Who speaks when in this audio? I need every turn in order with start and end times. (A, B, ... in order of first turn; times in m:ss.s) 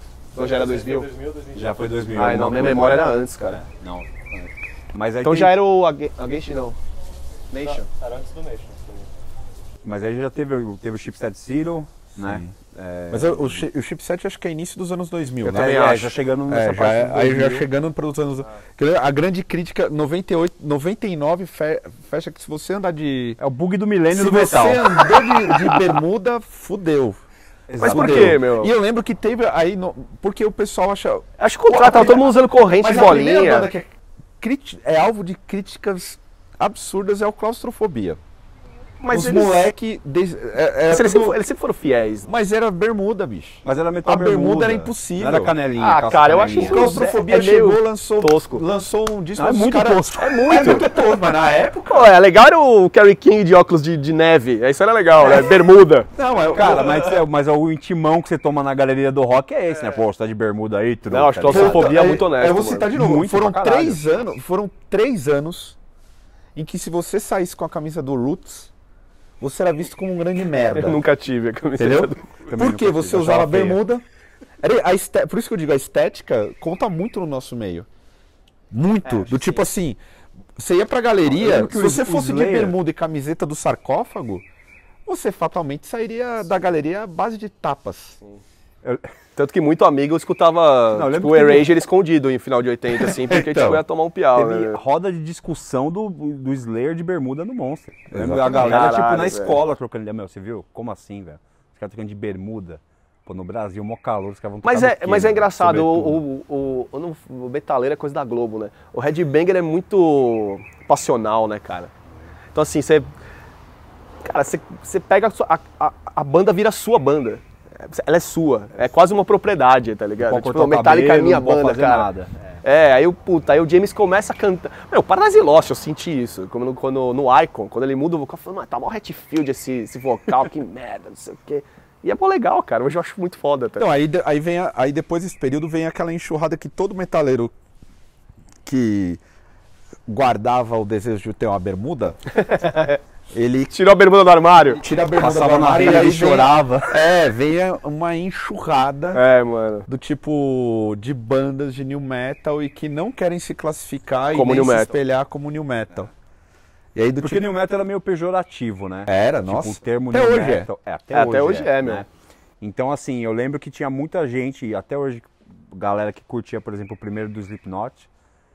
0:00.3-0:01.1 A
0:00.3-0:03.1 B
0:01.5-0:05.5 C
0:02.1-0:03.6 A
0:05.2-0:06.8 A
0:07.5-0:07.9 A
0:07.6-0:09.1 B
0:09.8-0:13.6 C
0:12.2-0:12.5 D
0:13.1-0:23.4 D
0:15.4-0:16.2 A
0:15.4-0:17.6 C
0:23.4-0:24.9 C
0:24.1-0:27.2 D
0:25.4-0:25.8 A
0:27.7-0:28.4 C
0:27.8-0:28.7 A
0:27.8-0:38.2 D
0:31.4-0:33.7 A
0:39.0-0:39.6 A
0:39.1-0:41.4 D
0:40.9-0:42.3 A
0:42.2-0:45.5 D
0:43.6-0:46.9 C
0:45.8-0:48.6 A
0:46.6-0:52.1 D
0:49.4-0:50.8 C
0:50.1-0:50.9 A
0:51.9-0:56.1 A
0:56.1-0:57.1 D
0:56.5-1:02.0 C
1:01.1-1:02.9 A
1:01.5-1:05.8 D
1:02.9-1:04.0 C
1:06.5-1:08.7 D
1:09.4-1:11.0 D
1:10.7-1:12.4 A
1:11.8-1:14.0 D
1:12.4-1:13.8 C
1:14.6-1:17.9 D
1:18.7-1:20.0 D
1:20.6-1:24.4 D
1:21.3-1:22.8 C
1:25.0-1:28.2 D
1:28.8-1:29.1 C
1:29.4-1:34.8 A
1:30.9-1:31.7 C
1:33.0-1:33.8 D
1:34.3-1:46.2 C
1:38.1-1:39.0 D
1:38.4-1:39.6 A
1:44.6-1:51.9 A
1:52.5-1:53.1 A
1:54.2-2:02.1 A
2:00.2-2:02.4 C
2:02.6-2:13.9 A
2:13.8-2:17.5 D
2:18.6-2:19.2 D
2:20.1-2:22.2 D
2:22.3-2:23.0 A
2:23.3-2:23.8 D
2:23.7-2:24.8 A
2:24.6-2:29.2 D
2:25.1-2:27.0 C
2:29.1-2:29.9 A
2:29.8-2:36.1 D
2:34.3-2:34.9 A
2:36.9-2:37.5 D
2:37.2-2:42.1 C
2:39.0-2:40.7 D
2:41.1-2:42.0 A
2:42.6-2:48.1 C